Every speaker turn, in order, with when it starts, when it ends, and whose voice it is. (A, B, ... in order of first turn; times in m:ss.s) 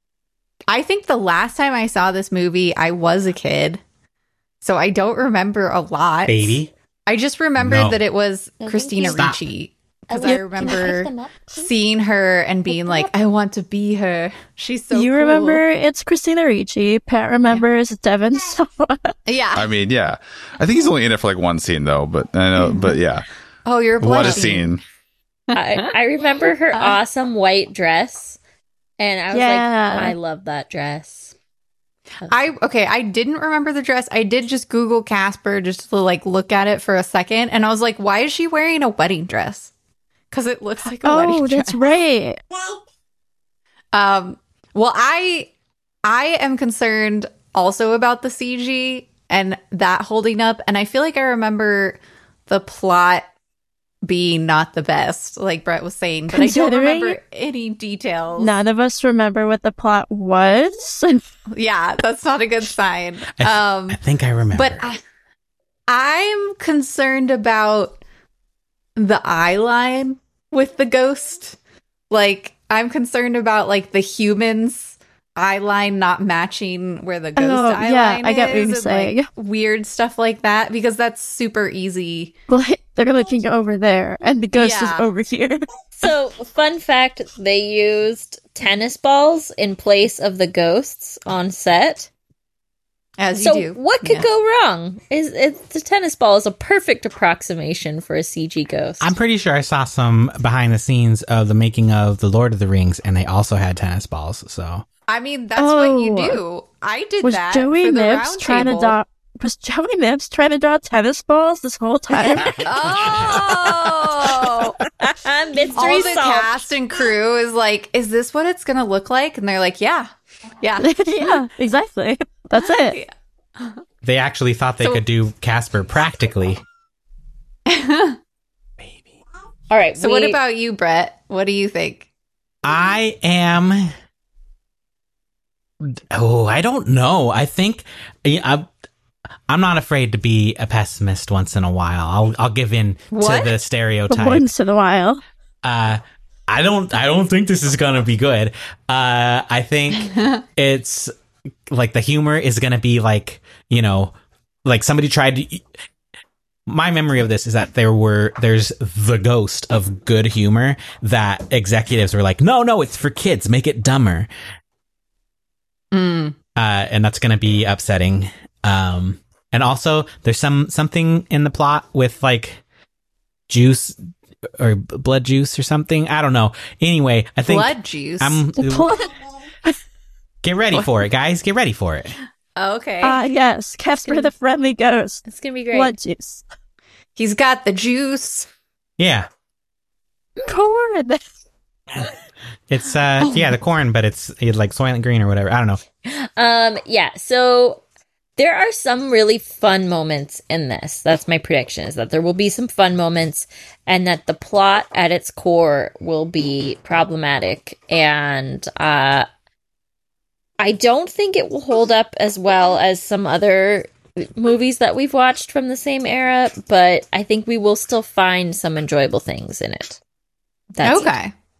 0:00.7-0:03.8 A
0:04.6-0:15.6 A
0:06.2-0:06.7 B
0:07.6-0:08.0 B
0:08.6-0:09.3 C
0:09.1-0:09.4 B
0:10.1-0:11.7 C
0:10.2-0:10.9 D
0:14.9-0:19.1 D
0:19.3-0:19.7 A
0:19.5-0:23.2 E
0:22.6-0:23.0 A
0:23.6-0:24.8 A
0:24.0-0:24.8 E
0:25.5-0:25.9 A
0:25.5-0:28.4 C
0:29.0-0:31.3 C
0:29.3-0:30.1 D
0:32.3-0:39.7 A
0:40.3-0:41.8 A
0:41.0-0:42.4 D
0:43.9-0:45.5 A
0:46.0-0:53.3 A
0:54.0-0:58.5 A
0:56.3-0:57.2 D
0:58.4-1:01.2 D
1:01.5-1:04.0 A
1:03.4-1:04.8 B
1:04.5-1:05.0 A
1:05.9-1:08.0 A
1:09.0-1:11.6 A
1:12.1-1:22.3 A
1:17.4-1:19.3 D
1:22.5-1:25.6 D
1:24.5-1:25.0 A
1:26.0-1:32.1 C
1:33.2-1:34.2 A
1:33.4-1:39.1 C
1:39.0-1:44.8 B
1:45.1-1:49.0 A
1:45.6-1:46.4 D
1:47.2-1:52.6 D
1:52.5-1:54.8 A
1:53.0-1:53.4 B
1:55.0-1:56.7 C
1:55.8-2:00.1 A
2:00.6-2:01.4 A
2:00.8-2:03.0 D
2:02.6-2:03.8 A
2:04.0-2:06.6 B
2:07.7-2:08.2 A
2:09.7-2:10.4 C
2:10.0-2:12.0 A
2:12.6-2:13.9 B
2:15.8-2:18.7 B
2:19.5-2:24.5 B
2:23.1-2:23.6 A
2:24.1-2:25.2 D
2:25.6-2:31.1 B
2:30.1-2:30.4 A
2:31.7-2:34.1 B
2:34.6-2:35.6 B
2:36.7-2:44.3 B
2:45.9-2:46.4 A
2:46.6-2:52.6 B
2:53.5-2:54.0 B
2:54.6-2:58.9 B
2:57.4-2:58.4 A
2:58.6-2:59.1 D
3:00.4-3:02.2 B
3:02.6-3:03.2 A
3:03.0-3:06.4 D
3:05.3-3:05.9 C
3:07.2-3:08.5 A
3:09.0-3:09.3 B
3:10.4-3:11.2 D
3:12.7-3:15.8 B
3:16.0-3:17.8 C
3:18.4-3:29.2 C
3:30.6-3:40.0 C
3:40.7-3:41.1 C
3:40.8-3:41.3 A